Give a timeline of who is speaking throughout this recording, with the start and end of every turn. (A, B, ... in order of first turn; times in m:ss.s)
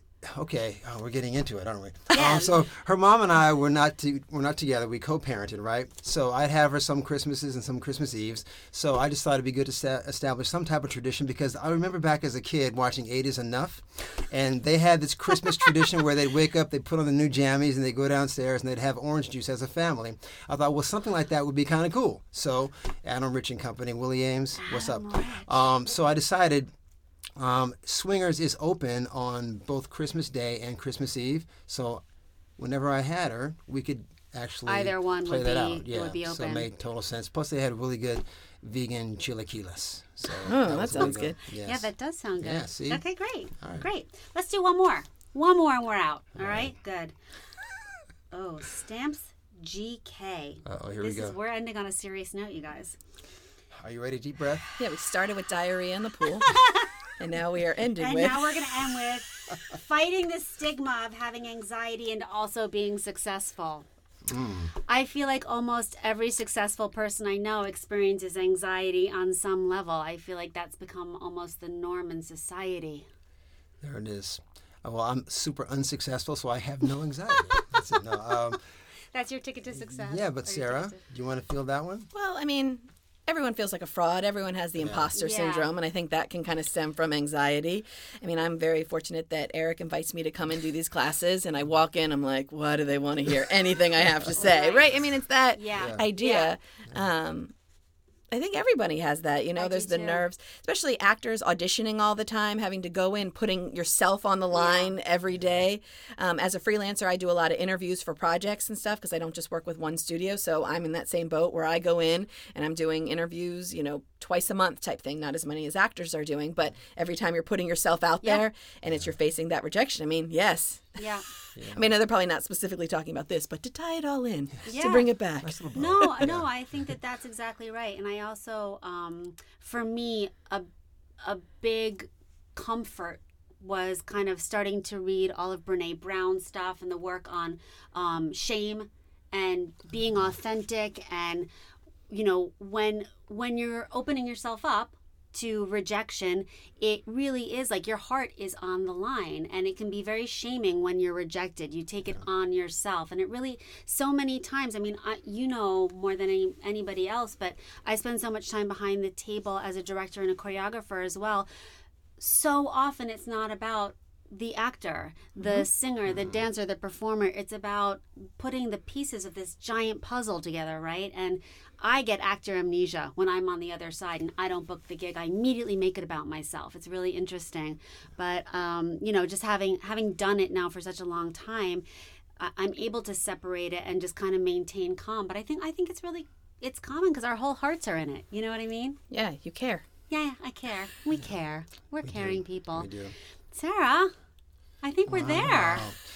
0:00.2-0:26.7 A
0:02.1-0:02.6 B
0:24.6-0:25.5 B
0:27.4-0:32.0 A
0:32.6-0:41.9 A
0:34.7-0:36.7 B
0:40.4-0:41.4 C
0:41.0-0:47.1 B
0:42.4-0:43.0 A
0:43.6-0:43.9 A
0:46.4-0:46.7 A
0:48.3-0:53.0 B
0:50.6-0:51.4 A
0:53.8-0:54.7 A
0:54.8-0:56.5 C
0:56.4-0:56.9 B
0:57.2-0:58.6 C
0:58.0-1:03.9 B
1:04.3-1:04.7 A
1:04.9-1:13.1 B
1:13.8-1:18.6 A
1:19.1-1:21.0 B
1:19.8-1:22.1 A
1:22.1-1:37.5 C
1:24.8-1:25.1 A
1:25.2-1:25.7 B
1:34.4-1:35.0 B
1:35.5-1:36.6 B
1:35.8-1:36.0 A
1:38.3-2:01.0 C
1:39.6-1:40.3 B
1:44.5-1:45.0 B
1:58.8-1:59.1 A
2:01.0-2:01.3 B
2:01.6-2:01.9 A
2:01.7-2:06.3 C
2:04.7-2:05.1 B
2:05.4-2:06.5 A
2:05.7-2:10.7 B
2:11.2-2:21.5 B
2:22.1-2:41.5 B
2:42.2-3:01.8 B
3:02.4-3:09.0 B
3:09.1-3:09.8 C
3:10.1-3:12.9 B
3:12.0-3:13.1 A
3:13.5-3:14.1 B
3:14.8-3:15.9 B
3:15.1-3:16.0 A